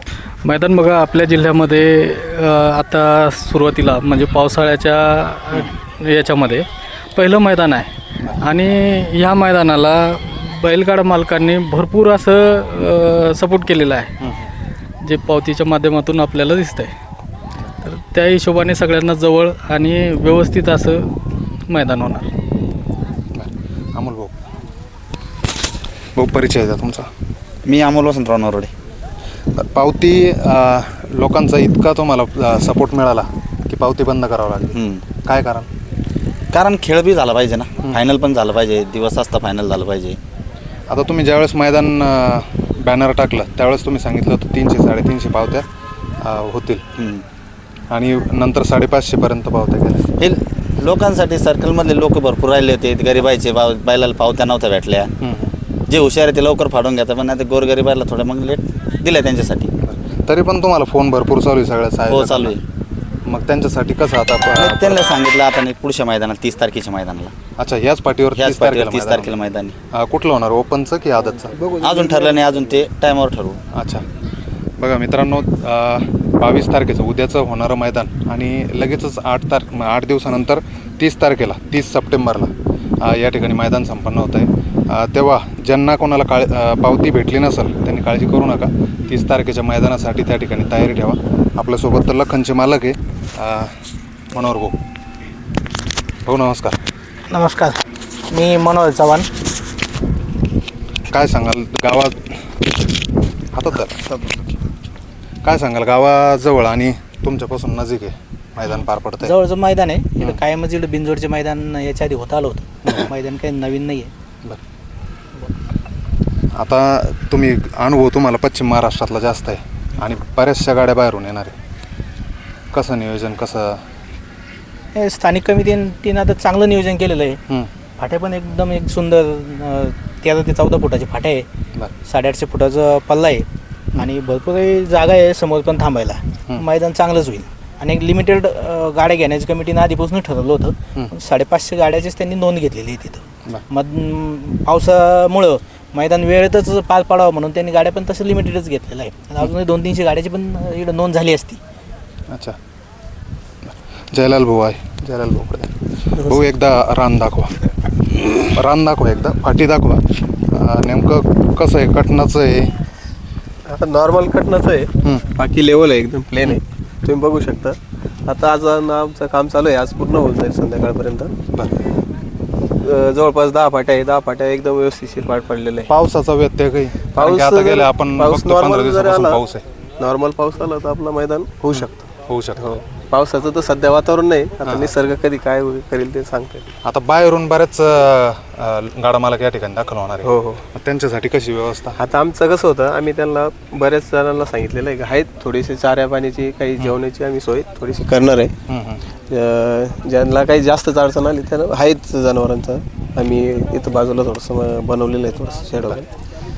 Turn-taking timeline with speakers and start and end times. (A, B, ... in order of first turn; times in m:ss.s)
0:00.4-0:14.2 A
0:14.2-0:14.5 B
0:15.0-0:16.9 A
0:17.8-0:21.1 A
0:21.7-0:22.3 A
0:23.3-0:24.4 B
0:26.2-0:27.1 B
0:27.7-0:28.7 C
0:29.5-0:35.7 B
0:34.8-0:35.0 C
0:36.5-0:40.2 C
0:40.9-0:45.7 B
0:46.2-0:46.8 B
0:47.0-0:47.2 C
0:47.9-0:50.1 B
0:50.2-0:55.1 C
0:55.2-0:55.6 B
0:55.9-0:59.7 C
0:59.8-1:02.6 B
1:02.1-1:02.6 C
1:03.3-1:05.2 B
1:04.6-1:07.3 C
1:07.6-1:09.4 B
1:08.4-1:09.8 C
1:09.9-1:11.7 B
1:11.6-1:12.5 D
1:11.8-1:13.6 C
1:13.7-1:14.0 B
1:14.8-1:22.5 B
1:23.0-1:33.8 B
1:34.3-1:34.8 B
1:36.2-1:36.8 B
1:37.3-1:39.3 E
1:41.1-1:42.5 B
1:43.5-1:44.0 B
1:45.4-1:49.3 B
1:49.2-1:54.1 E
1:56.6-2:01.6 B
2:02.7-2:03.8 B
2:05.0-2:07.4 E
2:08.0-2:11.5 E
2:12.1-2:31.6 E
2:32.3-2:32.6 B
2:34.1-2:35.7 B
2:36.1-2:36.4 D
2:36.2-2:37.5 B
2:38.1-2:42.7 B
2:43.7-2:51.3 D
2:52.8-2:55.9 D
2:55.9-2:59.6 B
2:57.2-2:59.4 D
3:00.0-3:02.0 D
3:01.7-3:02.8 B
3:02.6-3:06.7 D
3:04.6-3:04.9 B
3:06.8-3:12.0 B
3:10.2-3:10.6 D
3:12.0-3:18.5 D
3:18.7-3:19.0 B
3:19.3-3:26.1 D